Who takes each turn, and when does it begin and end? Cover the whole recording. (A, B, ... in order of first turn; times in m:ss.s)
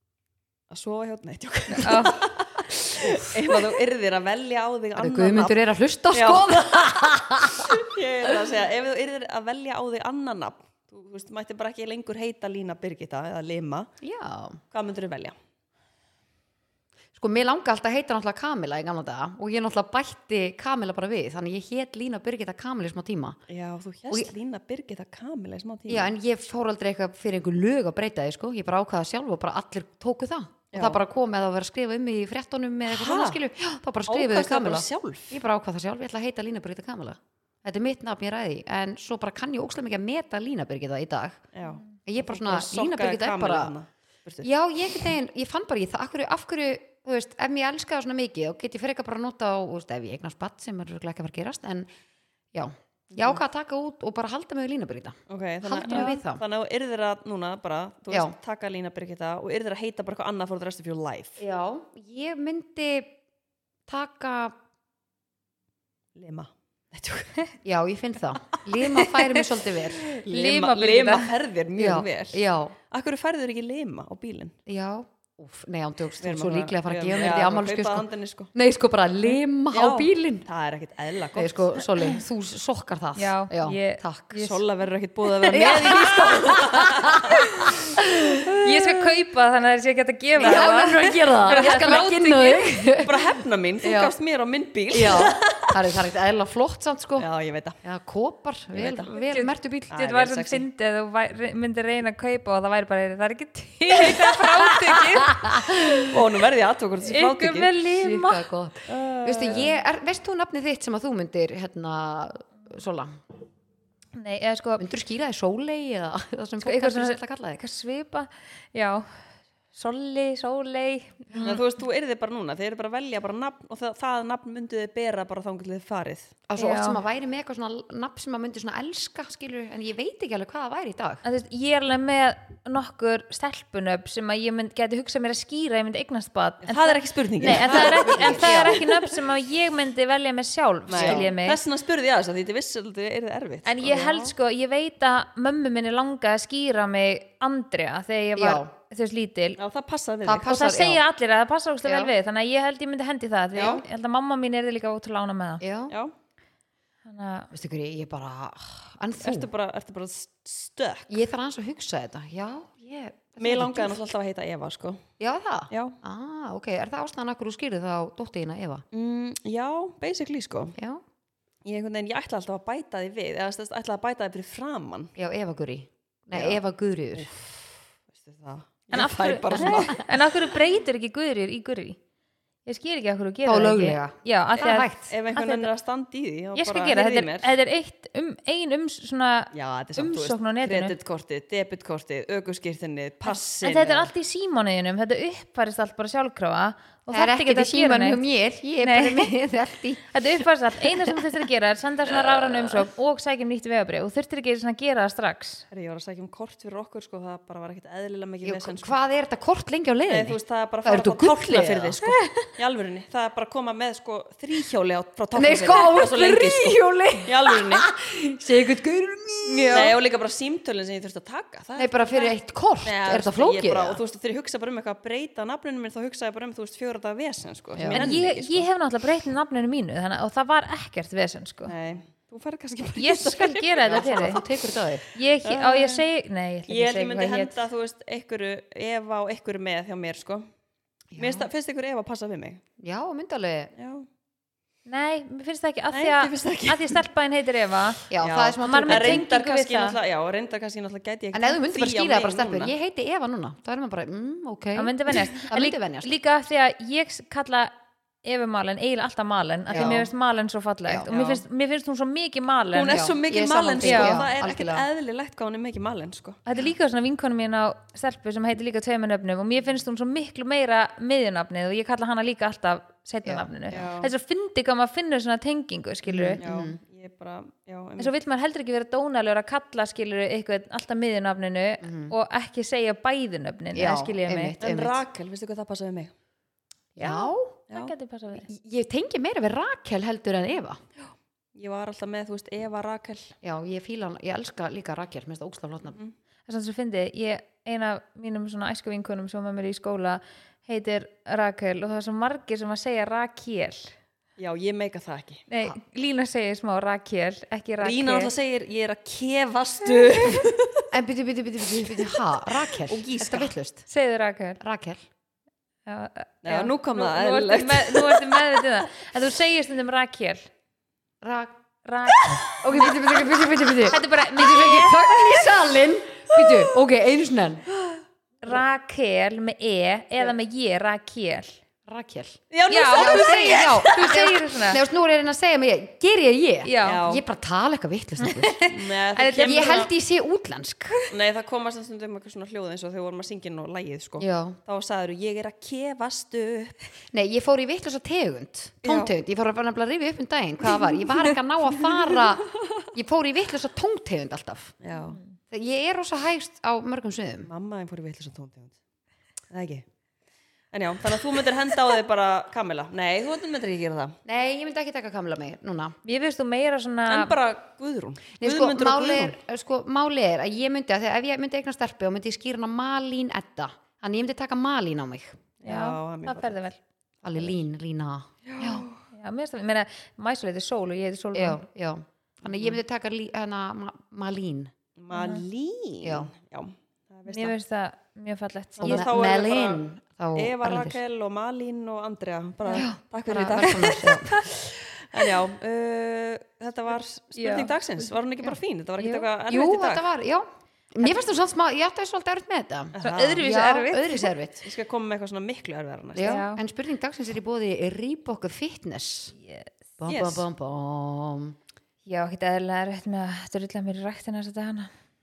0:00.7-0:05.6 A
0:01.8-0:02.2 B
0:03.0-0:03.7 C
0:05.0-0:08.5 C
0:06.1-0:13.9 A
0:14.0-0:14.6 C
0:14.7-0:15.4 A
0:17.2-0:23.4 C
0:23.5-0:26.1 A
0:25.9-0:41.5 C
0:30.7-0:31.0 A
0:32.9-0:33.4 A
0:34.1-0:35.4 A
0:41.5-0:44.5 A
0:41.6-0:41.9 B
0:42.0-0:43.7 C
0:44.4-0:51.9 C
0:52.5-0:56.4 C
0:53.1-0:53.4 A
0:55.3-1:01.4 A
0:55.8-0:56.2 B
1:01.4-1:03.2 C
1:03.9-1:04.5 C
1:06.2-1:07.5 A
1:07.6-1:10.1 C
1:08.9-1:09.4 A
1:10.0-1:14.6 A
1:10.2-1:11.3 B
1:11.8-1:12.8 C
1:14.7-1:20.5 C
1:16.2-1:18.5 A
1:19.7-1:22.1 A
1:21.4-1:24.5 C
1:23.2-1:24.6 B
1:24.4-1:27.8 A
1:25.4-1:28.5 C
1:28.6-1:32.7 B
1:30.4-1:32.1 A
1:30.4-1:34.1 C
1:33.0-1:35.8 A
1:34.9-1:37.3 C
1:37.2-1:37.8 A
1:37.8-1:39.9 C
1:38.7-1:39.1 A
1:39.2-1:45.8 B
1:39.9-1:40.7 A
1:44.0-1:47.7 A
1:45.3-1:46.0 C
1:47.0-1:48.4 B
1:47.8-1:53.2 C
1:48.9-1:49.8 A
1:54.2-1:54.9 B
1:54.8-1:57.6 C
1:56.6-2:01.6 B
2:01.3-2:01.6 C
2:01.4-2:06.4 A
2:06.5-2:11.2 C
2:06.6-2:07.0 B
2:11.2-2:21.6 B
2:16.6-2:19.1 A
2:17.4-2:18.9 C
2:20.9-2:24.2 A
2:20.9-2:21.3 C
2:23.6-2:29.6 B
2:23.9-2:24.2 C
2:28.4-2:28.7 C
2:29.6-2:30.5 A
2:30.2-2:31.0 C
2:30.4-2:35.6 B
2:31.8-2:32.1 C
2:33.6-2:33.8 A
2:35.6-2:36.0 C
2:37.1-2:37.5 B
2:37.5-2:39.5 C
2:39.2-2:41.2 A
2:41.1-2:44.0 C
2:43.4-2:45.0 A
2:45.2-2:48.8 C
2:45.7-2:46.0 A
2:48.9-2:50.8 A
2:51.6-2:55.1 A
2:55.2-2:57.3 C
2:56.3-2:56.6 A
2:57.2-3:00.1 A
2:58.9-3:02.0 B
2:59.6-3:00.0 C
3:02.7-3:05.7 B
3:03.5-3:05.1 C
3:04.6-3:07.6 A
3:06.6-3:11.0 B
3:09.5-3:14.1 A
3:13.2-3:18.2 B
3:17.1-3:21.3 C
3:18.8-3:19.3 B
3:20.1-3:25.6 B
3:22.3-3:22.8 A
3:25.7-3:29.0 A
3:28.4-3:32.0 C
3:30.1-3:37.9 A
3:32.0-3:32.5 B
3:35.4-3:40.0 C
3:39.6-3:48.7 A
3:41.8-3:44.0 C
3:47.8-3:48.1 C
3:47.9-3:51.7 B
3:51.6-3:54.6 A
3:53.0-3:54.4 B
3:53.9-3:55.0 C
3:55.1-3:57.6 B
3:55.4-3:56.1 A
3:56.7-4:00.5 A
4:01.1-4:01.5 C
4:01.2-4:02.6 A
4:02.8-4:03.7 C
4:03.8-4:04.1 A
4:04.9-4:08.0 B
4:05.9-4:07.0 A
4:08.1-4:09.3 C
4:08.2-4:12.7 A
4:08.6-4:10.0 B
4:11.3-4:16.1 C
4:14.8-4:17.7 B
4:18.2-4:23.0 B
4:19.7-4:20.1 C
4:19.7-4:20.0 A
4:21.1-4:21.4 A
4:22.7-4:26.4 A
4:22.9-4:24.9 C
4:23.8-4:24.2 B
4:26.5-4:36.4 B
4:33.2-4:33.8 C
4:33.7-4:34.1 A
4:36.1-4:36.8 C
4:36.4-4:38.1 A
4:38.0-4:44.5 B
4:41.8-4:42.1 C
4:43.8-4:45.0 C
4:44.6-4:46.1 A
4:47.0-4:47.6 C
4:47.0-4:48.5 B
4:48.4-4:50.8 C
4:51.0-4:53.3 A
4:53.4-4:56.0 C
4:56.5-5:04.0 B
5:04.4-5:05.4 A
5:05.5-5:08.3 B
5:07.8-5:10.9 A
5:10.9-5:13.9 C
5:11.8-5:13.5 A
5:13.9-5:14.6 B
5:14.6-5:15.1 C
5:15.9-5:20.5 B
5:16.4-5:18.8 A
5:21.2-5:21.6 C
5:21.8-5:22.4 B
5:22.2-5:23.2 A
5:22.5-5:27.6 C
5:23.9-5:25.1 B
5:26.3-5:26.7 A
5:28.4-5:31.6 B
5:31.9-5:38.6 C
5:32.5-5:34.2 A
5:32.7-5:34.8 B
5:36.6-5:37.0 B
5:36.8-5:37.2 A
5:38.2-5:39.9 B
5:38.7-5:39.9 A
5:39.4-5:41.0 C
5:41.1-5:46.8 A
5:44.2-5:44.6 C
5:47.1-5:54.8 C
5:48.8-5:49.1 A
5:51.9-5:52.5 A
5:54.8-5:55.2 A
5:54.9-5:55.4 B
5:55.5-5:57.5 C
5:57.4-5:58.8 A
5:59.5-5:59.8 A
6:00.7-6:04.2 A
6:04.3-6:06.0 C
6:06.0-6:07.4 B
6:07.1-6:09.4 A
6:08.4-6:15.4 C
6:15.6-6:16.6 A
6:15.7-6:16.8 B
6:17.2-6:18.8 C
6:18.5-6:19.0 A
6:19.1-6:21.6 B
6:21.3-6:24.7 C
6:22.5-6:22.8 A
6:25.0-6:27.6 A
6:25.1-6:25.4 B
6:26.0-6:26.3 C
6:27.3-6:29.1 B
6:28.8-6:29.8 A
6:28.8-6:31.0 C
6:30.4-6:40.1 A
6:32.7-6:34.4 C
6:37.4-6:37.7 B
6:39.0-6:39.3 B
6:39.5-6:44.6 C
6:42.9-6:43.4 A
6:43.0-6:44.3 B
6:44.6-6:46.4 A
6:46.2-6:49.3 C
6:46.2-6:46.6 B
6:49.4-6:49.7 B
6:50.0-6:51.6 C
6:50.1-6:50.5 A
6:52.1-6:54.9 B